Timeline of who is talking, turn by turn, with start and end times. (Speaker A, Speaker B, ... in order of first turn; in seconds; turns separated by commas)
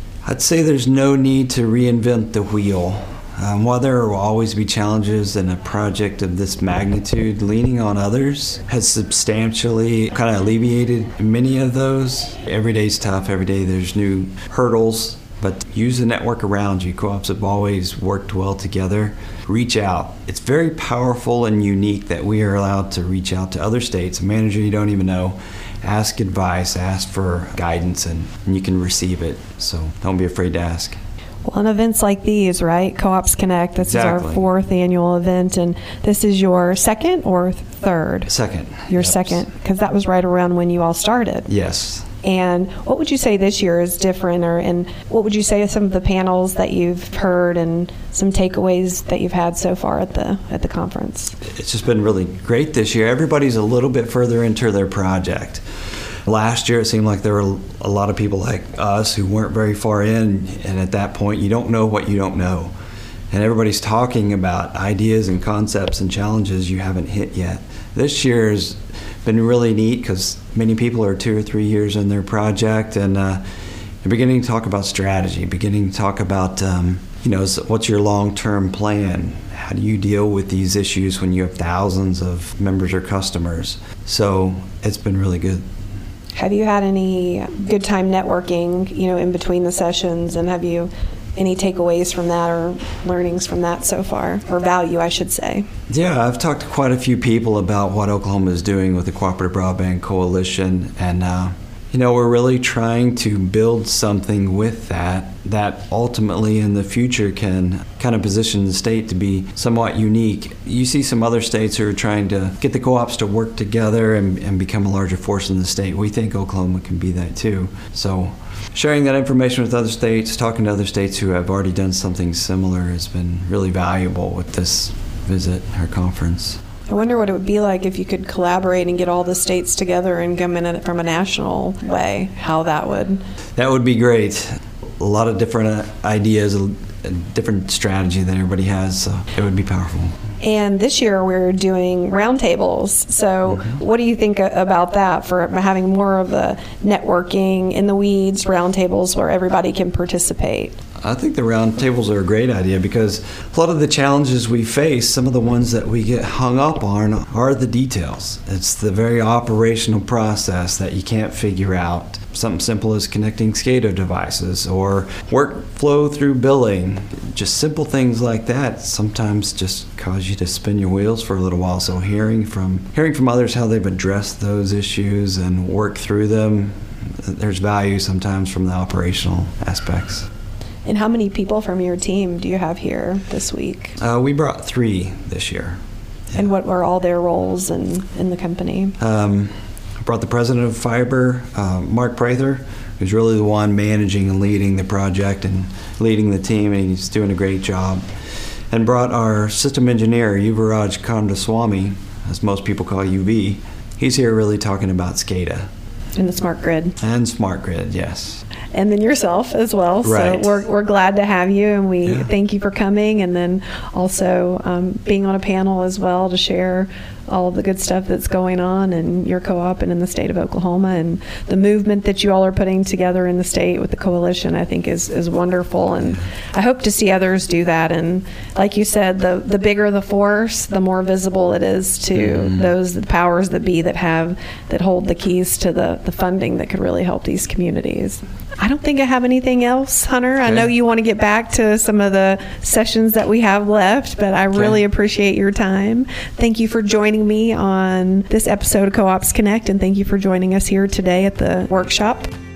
Speaker A: 0.2-31.0, Speaker B: 31.4-38.3, Speaker A: 33.8-34.5, Speaker A: 38.3-39.4, Speaker B: 38.9-41.5, Speaker A: 41.5-42.1, Speaker B: 42.2-51.4, Speaker A: 51.5-55.6, Speaker A: 56.3-62.7, Speaker A: 63.3-73.4, Speaker A: 74.0-85.6, Speaker B: 86.3-95.7, Speaker A: 95.9-126.6, Speaker B: 126.9-133.2, Speaker A: 133.6-140.2, Speaker B: 140.4-150.8, Speaker A: 151.0-180.3, Speaker B: 180.9-184.0, Speaker A: 184.0-185.8, Speaker B: 186.3-189.0, Speaker A: 189.0-198.0, Speaker A: 198.7-205.7, Speaker B: 206.2-207.0, Speaker A: 207.0-208.4, Speaker B: 208.7-252.3, Speaker A: 210.0-210.6, Speaker A: 232.2-232.7